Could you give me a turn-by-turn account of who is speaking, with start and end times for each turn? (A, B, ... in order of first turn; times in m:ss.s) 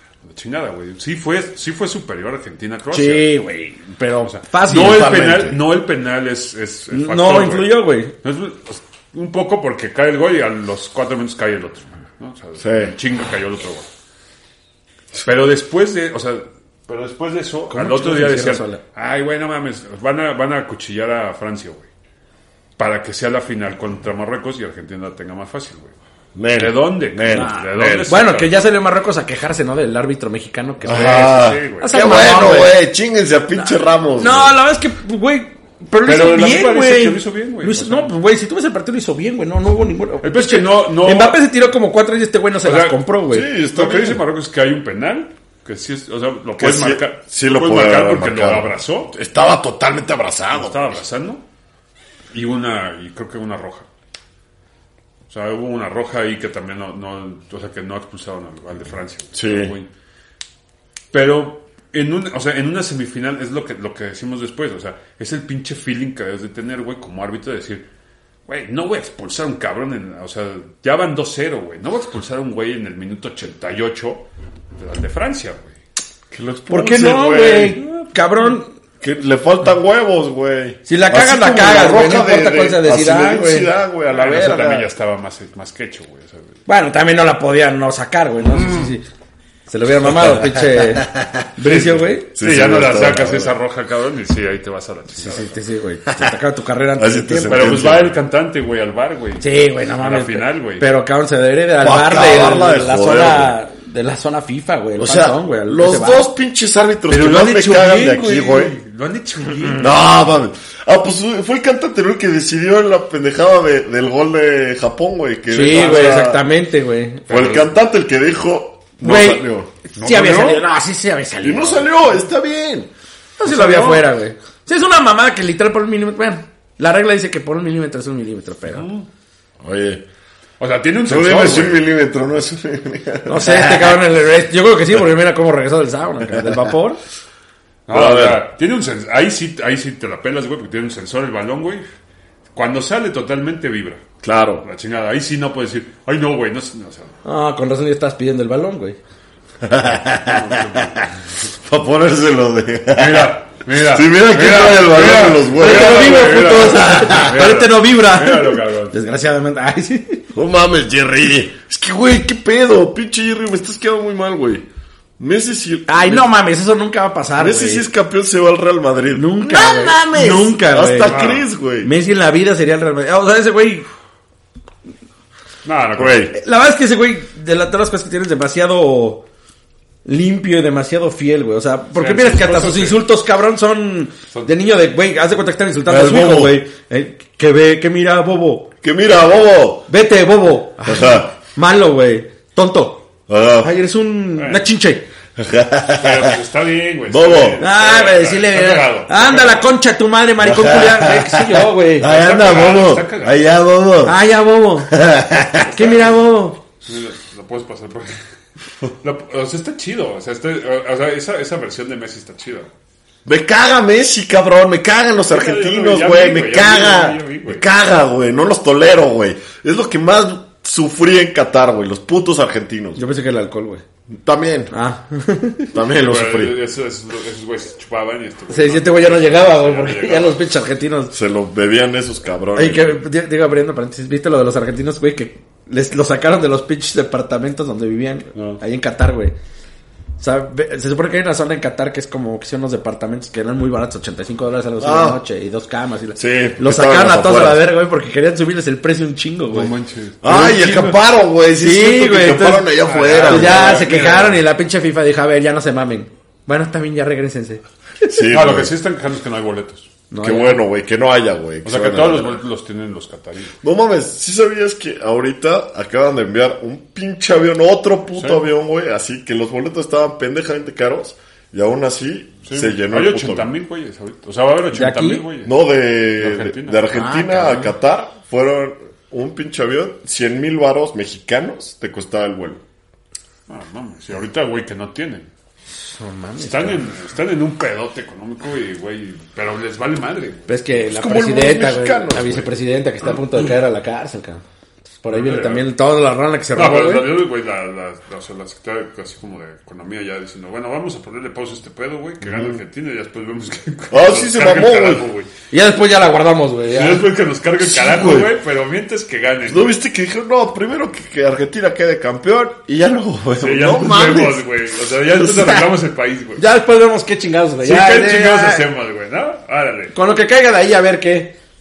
0:00.2-0:03.3 A
0:02.9-0:05.1 B
0:04.2-0:13.9 A
0:04.6-0:05.6 C
0:06.9-0:08.1 B
0:12.6-0:12.9 C
0:15.2-0:21.9 A
0:17.7-0:18.8 B
0:22.8-0:25.9 A
0:26.3-0:28.1 C
0:26.5-0:28.6 A
0:27.3-0:32.7 B
0:30.8-0:34.6 C
0:30.8-0:31.9 A
0:33.5-0:43.5 B
0:36.0-0:38.1 A
0:40.2-0:41.4 A
0:42.6-0:43.0 A
0:43.3-0:44.2 C
0:43.7-0:49.1 A
0:46.6-0:51.0 C
0:50.5-0:51.4 A
0:52.3-0:53.9 A
0:55.3-0:59.9 A
0:59.3-0:59.7 C
1:01.1-1:07.8 A
1:08.5-1:15.8 A
1:16.3-1:17.8 C
1:16.7-1:18.7 B
1:19.0-1:24.9 C
1:20.9-1:23.7 B
1:24.1-1:26.6 A
1:26.7-1:29.0 B
1:28.5-1:28.9 C
1:29.7-1:32.3 B
1:30.1-1:33.6 C
1:31.7-1:35.6 A
1:35.2-1:37.8 B
1:36.1-1:36.4 C
1:37.0-1:38.2 C
1:37.5-1:40.9 A
1:39.4-1:46.3 B
1:41.8-1:43.6 C
1:45.0-1:48.7 C
1:47.1-1:49.9 A
1:49.8-1:56.4 C
1:55.5-1:57.2 B
1:55.7-1:56.1 A
1:57.3-1:57.7 A
1:57.3-1:59.7 C
1:59.0-2:01.8 B
2:00.0-2:00.6 A
2:01.4-2:02.9 C
2:03.4-2:08.9 B
2:03.4-2:04.1 A
2:08.6-2:09.1 A
2:09.6-2:10.0 C
2:10.6-2:11.8 A
2:11.0-2:14.0 C
2:13.2-2:17.0 B
2:16.3-2:16.6 C
2:17.9-2:21.8 A
2:17.9-2:18.4 C
2:22.5-2:24.0 A
2:24.2-2:24.6 C
2:24.6-2:27.1 A
2:27.2-2:29.0 B
2:29.6-2:37.3 C
2:30.3-2:31.0 A
2:32.9-2:38.9 A
2:35.3-2:40.2 B
2:40.3-2:44.6 C
2:45.2-2:46.3 C
2:45.9-2:47.8 B
2:47.4-2:51.9 C
2:49.1-2:51.2 B
2:51.0-2:51.5 A
2:51.8-2:53.8 B
2:55.6-2:56.3 A
2:56.0-2:56.3 C
2:56.3-2:59.2 B
3:00.0-3:08.7 B
3:01.9-3:03.0 A
3:05.9-3:06.6 C
3:08.8-3:09.9 C
3:09.9-3:13.0 B
3:10.8-3:11.3 C
3:13.3-3:13.7 C
3:13.6-3:15.0 B
3:14.3-3:14.7 A
3:15.4-3:16.4 C
3:15.9-3:19.8 A
3:17.1-3:17.6 C
3:17.6-3:22.1 B
3:20.4-3:24.2 C
3:22.0-3:23.4 A
3:24.0-3:24.9 B
3:24.9-3:25.9 C
3:25.7-3:26.6 B
3:25.7-3:26.1 A
3:26.8-3:28.2 A
3:29.0-3:32.7 A
3:33.2-3:43.0 C
3:35.3-3:37.6 A
3:43.0-3:43.8 B
3:44.1-3:44.7 C
3:44.7-3:45.7 B
3:45.7-3:46.6 C
3:45.9-3:50.4 A
3:48.5-3:51.1 B
3:51.1-3:53.0 C
3:52.5-3:59.3 B
3:58.3-3:58.6 A
4:00.2-4:09.7 B
4:04.8-4:05.2 C
4:06.2-4:07.6 C
4:09.5-4:10.9 A
4:10.2-4:13.9 C
4:11.6-4:18.3 B
4:12.8-4:14.4 A
4:18.0-4:18.7 C
4:18.3-4:19.9 A
4:20.1-4:20.6 B
4:20.2-4:22.4 C
4:21.6-4:23.5 A
4:23.6-4:33.5 C
4:28.2-4:28.4 A
4:32.4-4:35.5 A
4:34.7-4:35.2 B
4:35.4-4:42.6 C
4:36.2-4:36.9 A
4:36.9-4:37.7 B
4:43.5-4:45.3 A
4:45.9-4:46.8 B
4:46.4-4:50.9 A
4:50.5-4:54.4 B
4:50.9-4:52.5 C
4:55.0-4:57.0 B
4:55.1-4:55.7 A
4:56.5-5:05.3 A
5:02.2-5:02.6 C
5:03.9-5:05.0 C
5:05.5-5:07.0 B
5:06.7-5:09.7 A
5:07.6-5:08.3 C
5:09.5-5:14.4 C
5:13.4-5:16.4 A
5:15.2-5:15.7 C
5:16.4-5:18.7 B
5:17.6-5:20.0 A
5:19.9-5:21.3 B